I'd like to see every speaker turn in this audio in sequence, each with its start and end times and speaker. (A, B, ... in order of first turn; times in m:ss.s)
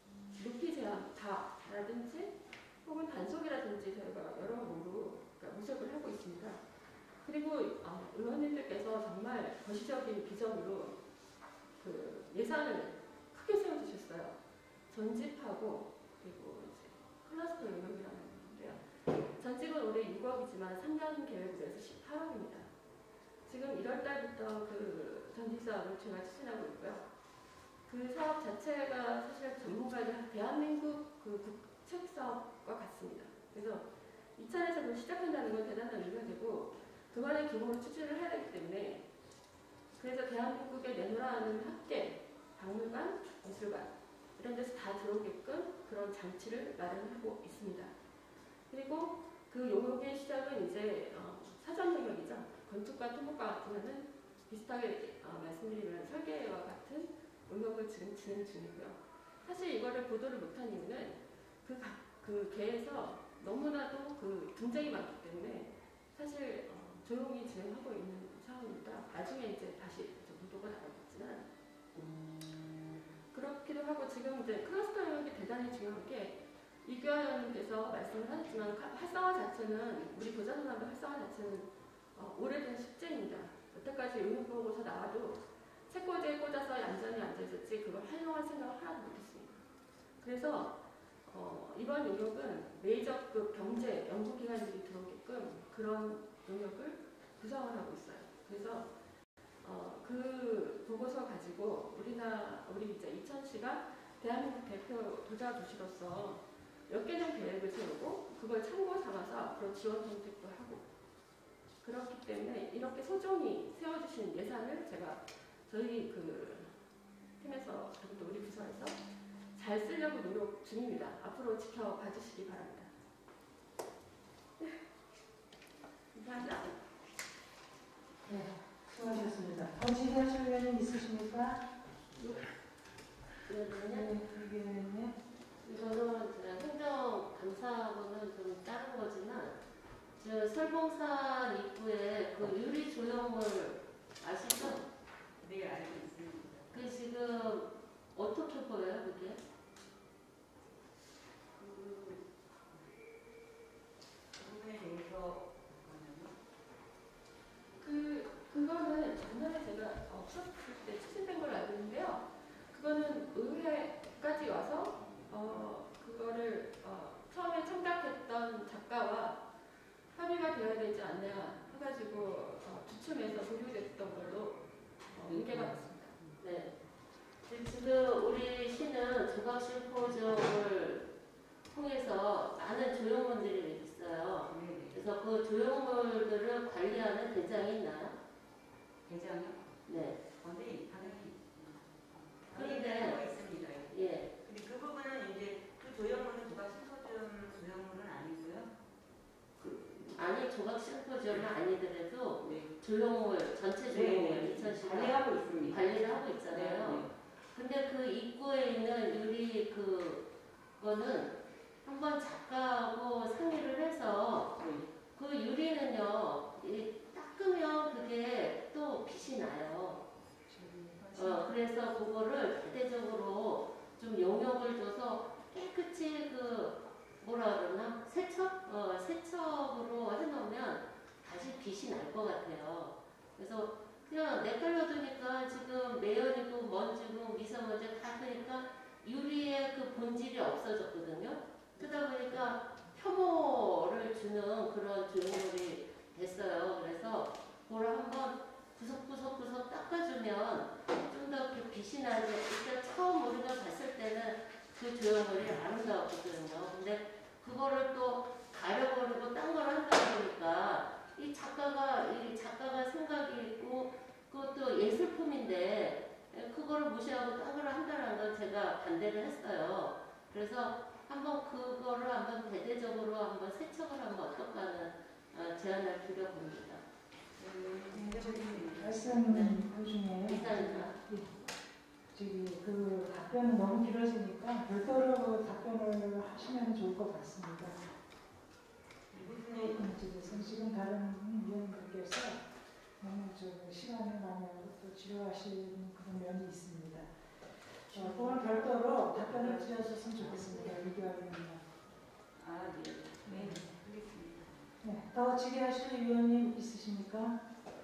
0:00.3-0:06.6 A
0:07.2-0:11.0 A
0:11.8-0:14.4 A
0:14.9-0:18.8 A
0:19.4-0:22.7 A
0:23.5-0:27.1 A
0:27.9-0:33.8 A
0:34.4-0:39.1 A
0:40.0-0:47.9 A
0:48.7-1:11.5 A
1:12.0-1:13.0 B
1:13.3-1:29.6 A
1:30.2-1:38.9 A
1:39.6-1:50.9 A
1:51.8-1:56.7 A
1:57.4-1:59.0 A
1:59.6-2:02.9 A
2:06.1-2:06.8 A
2:08.2-2:11.7 C
2:12.2-2:12.5 D
2:13.4-2:14.1 D
2:13.8-2:15.2 C
2:15.6-2:19.6 D
2:20.2-2:24.8 D
2:25.4-2:26.8 B
2:26.7-2:29.4 D
2:31.6-2:32.9 B
2:34.4-2:36.4 B
2:37.8-2:49.4 A
2:50.1-2:56.2 A
2:55.3-2:56.4 B
2:56.4-2:56.7 D
2:57.5-3:01.1 D
3:01.7-3:08.2 D
3:04.5-3:05.0 B
3:09.1-3:18.7 B
3:09.9-3:10.2 D
3:12.6-3:13.2 D
3:13.9-3:14.3 D
3:19.6-3:20.2 B
3:20.0-3:30.3 D
3:22.4-3:22.7 B
3:23.9-3:27.1 B
3:30.8-3:34.5 D
3:34.6-3:34.9 B
3:35.1-3:40.0 D
3:40.5-3:41.5 C
3:41.1-4:36.8 D
4:37.4-4:39.2 B
4:37.9-4:41.3 C
4:39.2-4:39.6 D
4:40.2-4:41.0 D
4:42.1-4:47.8 C
4:49.1-4:50.6 B
4:49.5-4:52.4 C
4:53.0-4:57.1 C
4:57.9-5:01.6 C
4:57.9-5:00.8 B
5:02.4-5:04.7 B
5:03.3-5:03.8 C
5:04.8-5:07.4 C